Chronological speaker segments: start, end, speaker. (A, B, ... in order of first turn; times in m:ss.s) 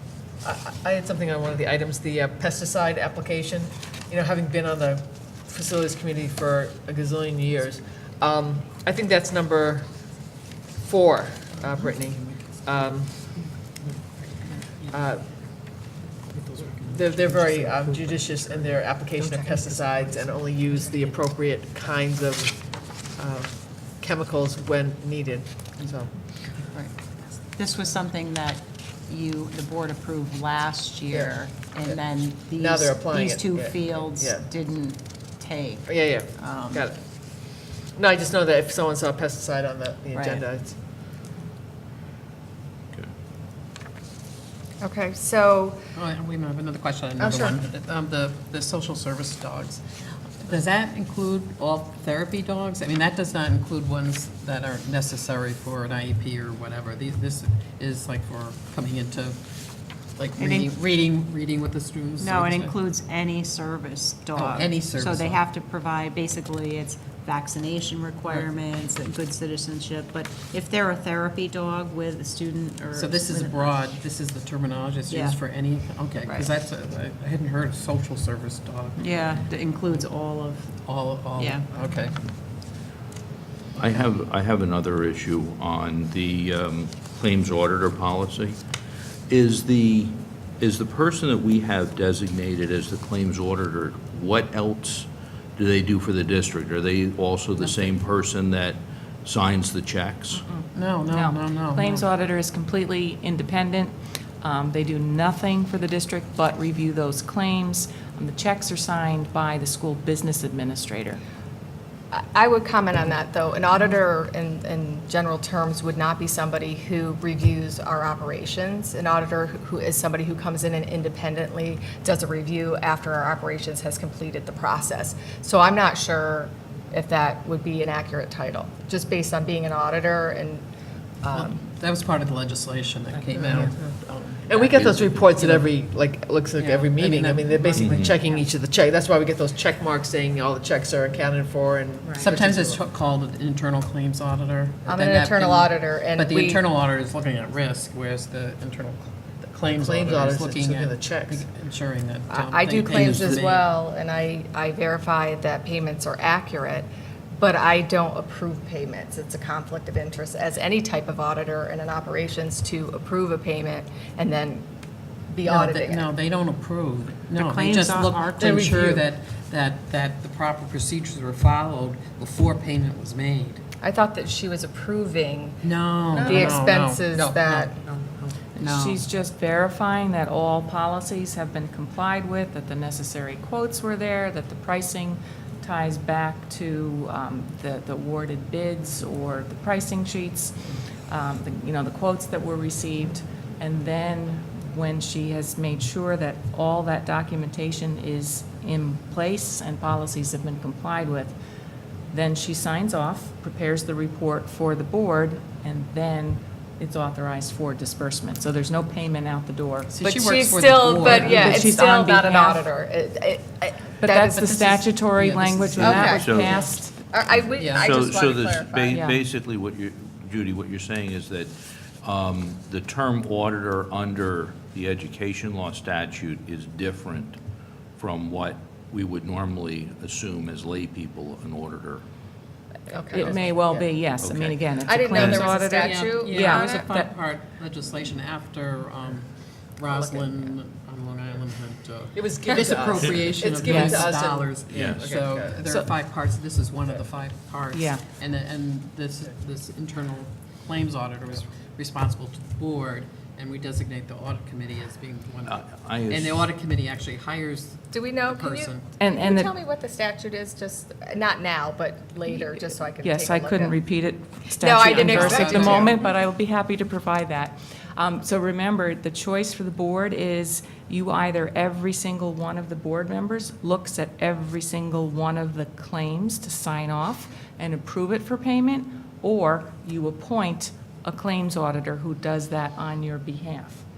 0:00.4-0:10.0 A
0:10.8-0:13.4 A
0:11.6-0:12.5 B
0:13.8-0:15.0 B
0:14.9-0:15.2 A
0:16.3-0:18.8 B
0:16.9-0:26.2 A
0:19.5-0:20.2 B
0:27.3-0:36.8 C
0:32.6-0:34.5 A
0:35.9-0:37.0 A
0:38.0-0:40.8 A
0:44.8-0:45.8 D
0:46.0-0:49.8 B
0:47.2-0:47.6 D
0:50.4-0:59.4 B
1:00.2-1:02.8 B
1:00.4-1:00.7 C
1:02.2-1:13.6 C
1:04.3-1:05.5 B
1:12.9-1:20.0 B
1:15.1-1:15.4 C
1:19.0-1:20.7 C
1:20.8-1:22.1 B
1:21.4-1:21.7 C
1:23.8-1:28.6 E
1:29.3-1:40.4 E
1:37.6-1:37.9 B
1:40.3-1:51.2 F
1:40.7-1:42.1 B
1:52.1-2:10.7 D
2:11.2-2:11.6 D
2:11.3-2:15.8 B
2:14.5-2:22.9 A
2:16.6-2:18.1 B
2:17.8-2:18.1 E
2:22.1-2:33.7 B
2:24.9-2:26.6 D
2:29.7-2:31.4 A
2:32.3-2:44.7 D
2:45.3-2:46.0 D
2:45.4-2:53.6 B
2:47.4-2:49.0 C
2:53.8-2:57.7 D
2:55.6-2:59.0 B
2:58.6-3:10.6 F
3:11.1-3:21.4 F
3:22.1-3:29.9 F
3:29.9-3:31.6 B
3:30.0-3:34.8 D
3:31.0-3:32.6 F
3:34.0-3:37.0 F
3:34.4-3:36.7 B
3:35.8-3:36.4 D
3:35.8-3:36.6 E
3:37.1-3:39.0 D
3:37.3-3:47.4 E
3:37.6-3:38.0 B
3:38.9-3:39.2 F
3:48.0-3:52.0 E
3:52.9-3:53.8 D
3:53.1-3:57.1 F
3:54.2-3:54.6 E
3:54.9-3:56.8 D
3:55.1-3:55.5 E
3:55.7-4:18.9 B
4:02.1-4:05.8 A
4:03.7-4:04.0 F
4:04.8-4:05.0 E
4:07.7-4:08.0 F
4:15.5-4:16.5 E
4:17.9-4:23.8 D
4:19.0-4:19.5 F
4:23.0-4:43.8 F
4:24.6-4:26.0 D
4:24.8-4:26.0 B